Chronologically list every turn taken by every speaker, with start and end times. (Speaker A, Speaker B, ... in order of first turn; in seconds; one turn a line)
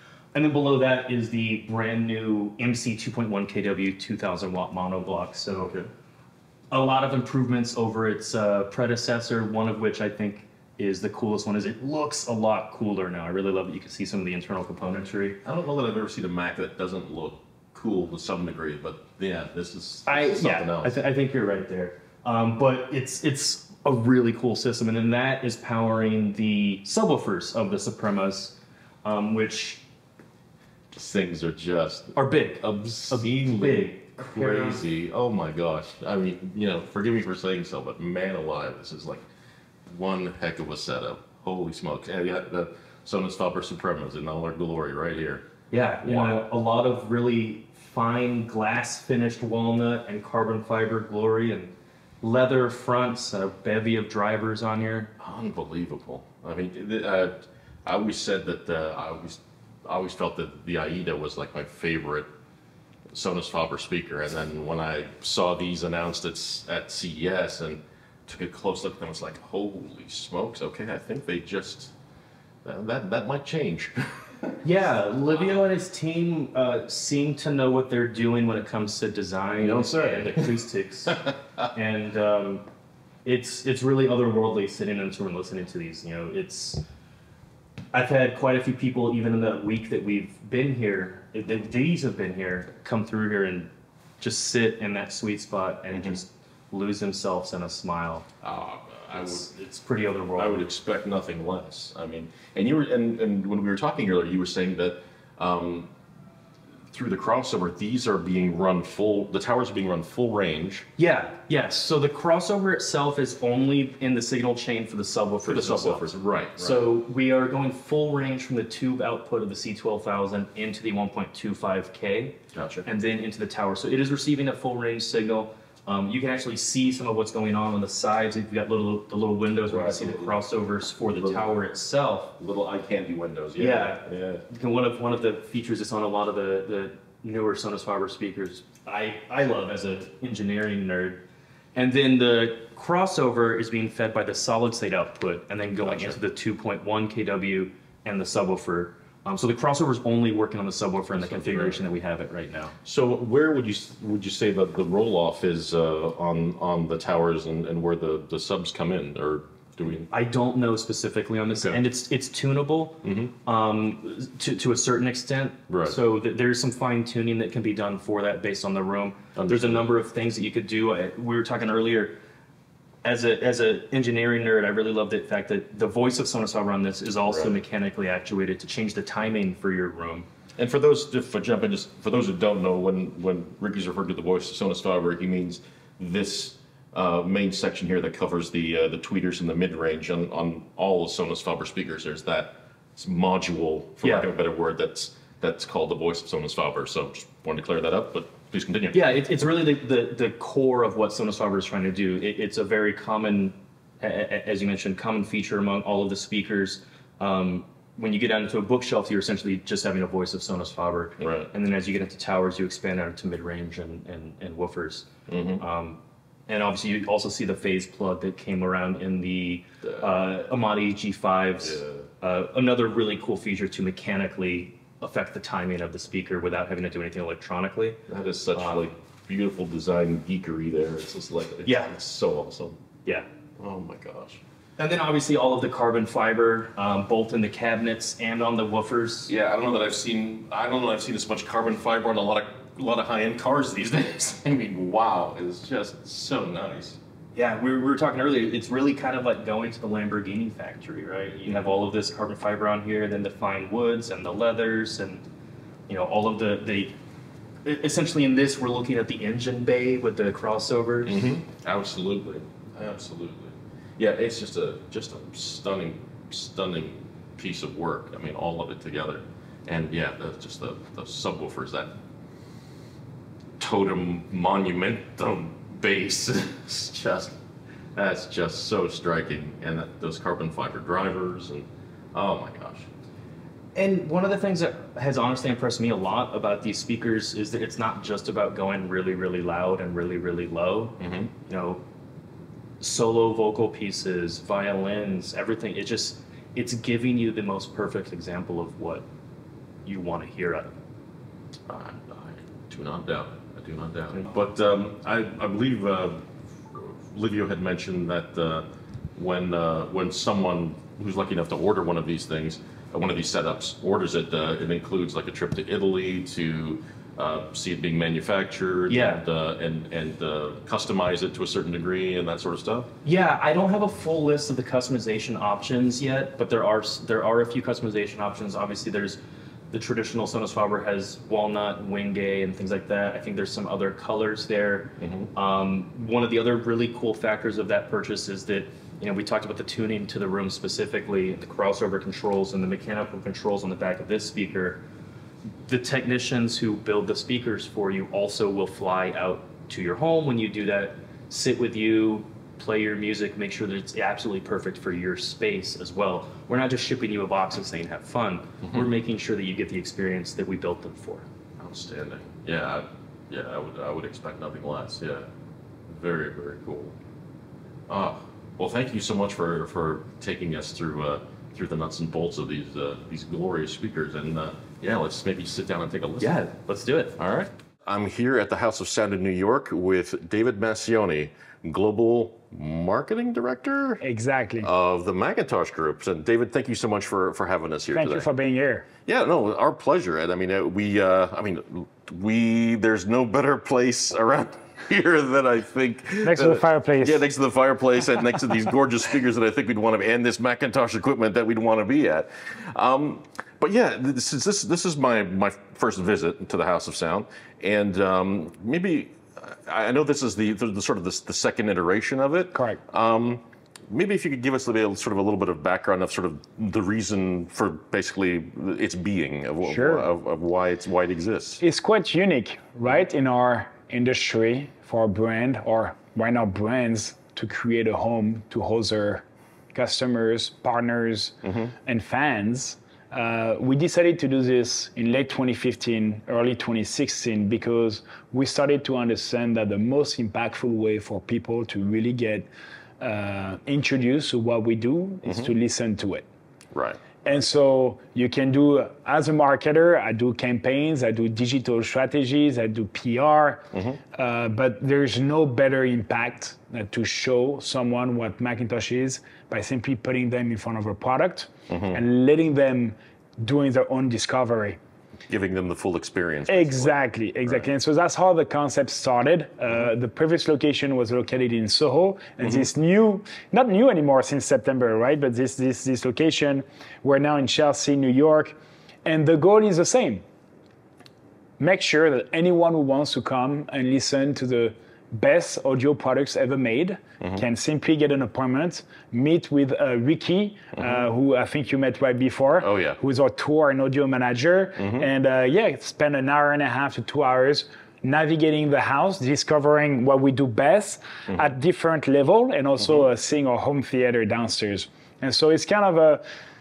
Speaker A: 0.3-5.8
Speaker B: 5.5-5.9
Speaker A: 6.7-15.4
Speaker B: 15.4-20.9
Speaker A: 20.1-29.8
Speaker B: 30.9-39.2
Speaker A: 32.1-34.8
Speaker B: 39.9-45.5
Speaker A: 45.7-55.1
Speaker B: 46.0-46.5
Speaker B: 55.2-62.3
Speaker B: 63.1-71.9
Speaker B: 72.6-74.6
Speaker A: 74.6-81.2
Speaker B: 75.3-75.6
Speaker B: 79.6-80.5
Speaker B: 81.1-81.7
Speaker A: 81.7-82.6
Speaker A: 83.2-86.8
Speaker A: 87.9-98.3
Speaker B: 95.9-96.2
Speaker B: 98.4-99.5
Speaker A: 99.1-100.7
Speaker B: 100.3-105.9
Speaker B: 106.9-110.8
Speaker A: 111.0-132.3
Speaker B: 115.5-116.8
Speaker B: 122.5-122.8
Speaker B: 129.7-130.4
Speaker B: 131.1-131.5
Speaker B: 132.4-134.4
Speaker A: 133.6-141.2
Speaker A: 141.7-152.7
Speaker B: 145.8-146.2
Speaker B: 151.1-151.8
Speaker B: 152.8-160.1
Speaker A: 160.1-172.2
Speaker B: 161.5-161.8
Speaker B: 163.0-163.3
Speaker B: 165.7-166.0
Speaker B: 169.3-169.9
Speaker A: 173.0-180.3
Speaker B: 177.3-177.5
Speaker B: 180.6-199.1
Speaker A: 194.0-194.3
Speaker A: 198.9-215.1
Speaker B: 211.2-211.5
Speaker B: 215.3-215.6
Speaker A: 215.6-228.0
Speaker B: 219.8-220.1
Speaker B: 221.6-222.1
Speaker B: 228.1-232.8
Speaker A: 228.5-228.9
Speaker A: 231.7-231.9
Speaker B: 233.6-234.4
Speaker A: 234.8-239.3
Speaker B: 239.3-247.0
Speaker A: 247.3-255.2
Speaker A: 255.9-256.9
Speaker A: 257.6-261.3
Speaker B: 261.0-271.9
Speaker B: 273.6-277.4
Speaker B: 277.9-282.9
Speaker A: 283.7-291.8
Speaker B: 291.0-291.3
Speaker A: 292.8-299.0
Speaker A: 299.8-300.7
Speaker B: 301.7-322.9
Speaker A: 318.9-319.2
Speaker A: 323.0-329.2
Speaker A: 329.7-344.8
Speaker B: 335.0-335.3
Speaker A: 345.6-361.2
Speaker B: 358.6-358.9
Speaker B: 361.6-365.2
Speaker B: 365.9-366.9
Speaker B: 367.9-376.4
Speaker A: 376.2-377.1
Speaker B: 377.2-384.0
Speaker C: 384.0-384.7
Speaker B: 384.6-388.3
Speaker C: 387.9-388.9
Speaker B: 389.0-421.6
Speaker C: 396.2-397.2
Speaker C: 412.5-412.8
Speaker C: 419.6-420.1
Speaker C: 421.6-442.5
Speaker B: 431.4-431.7
Speaker C: 443.0-446.2
Speaker B: 445.2-445.5
Speaker B: 446.7-447.0
Speaker C: 447.2-464.8
Speaker B: 453.7-454.0
Speaker B: 461.7-462.0
Speaker B: 465.3-467.6
Speaker C: 466.5-480.2
Speaker B: 472.4-472.7
Speaker C: 481.6-506.2
Speaker B: 490.7-491.0
Speaker B: 492.6-493.0
Speaker B: 494.8-495.1
Speaker B: 502.8-503.1